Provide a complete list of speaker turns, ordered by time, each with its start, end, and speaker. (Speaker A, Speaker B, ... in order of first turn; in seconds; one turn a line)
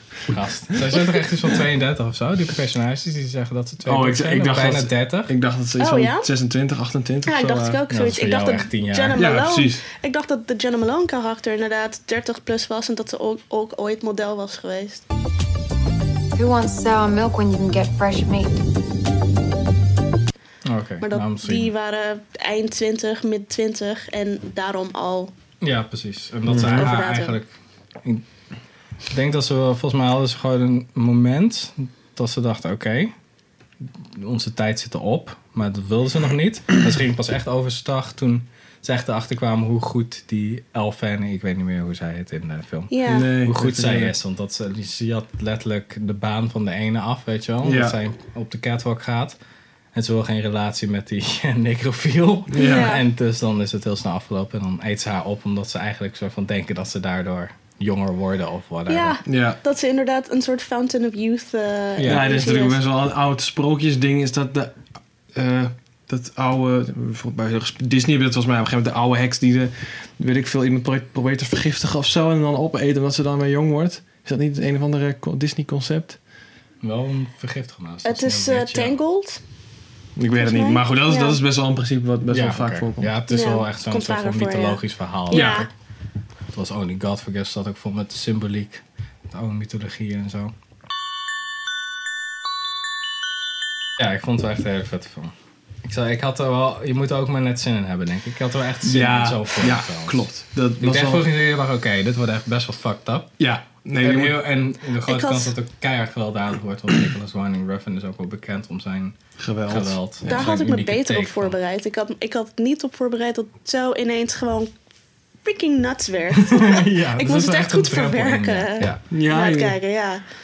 Speaker A: 0.3-5.3
Speaker B: 3.9-7.8
Speaker C: 5.8-6.3
Speaker C: 7.2-15.0
Speaker A: 7.9-9.2
Speaker B: 9.1-9.8
Speaker D: 16.4-18.6
Speaker A: 20.6-21.7
Speaker C: 21.0-25.3
Speaker A: 25.6-27.5
Speaker B: 26.5-26.9
Speaker C: 26.6-27.4
Speaker A: 29.1-33.1
Speaker A: 34.0-49.4
Speaker C: 42.9-43.3
Speaker B: 43.0-44.1
Speaker B: 47.6-48.0
Speaker A: 49.9-59.2
Speaker B: 52.5-52.9
Speaker C: 52.5-53.0
Speaker C: 58.9-62.8
Speaker B: 59.2-59.6
Speaker A: 62.0-62.3
Speaker B: 62.0-76.2
Speaker A: 76.8-79.0
Speaker C: 78.0-79.4
Speaker B: 80.2-83.1
Speaker C: 80.3-81.4
Speaker A: 82.3-85.7
Speaker C: 83.3-85.7
Speaker B: 85.3-85.7
Speaker A: 86.5-90.5
Speaker A: 94.0-95.3
Speaker A: 95.8-100.3
Speaker B: 98.8-101.2
Speaker A: 100.8-103.3
Speaker B: 103.4-104.4
Speaker A: 104.0-111.5
Speaker C: 105.0-105.5
Speaker B: 109.4-110.5
Speaker C: 110.2-114.7
Speaker C: 115.4-120.2
Speaker A: 116.5-119.0
Speaker B: 119.1-119.8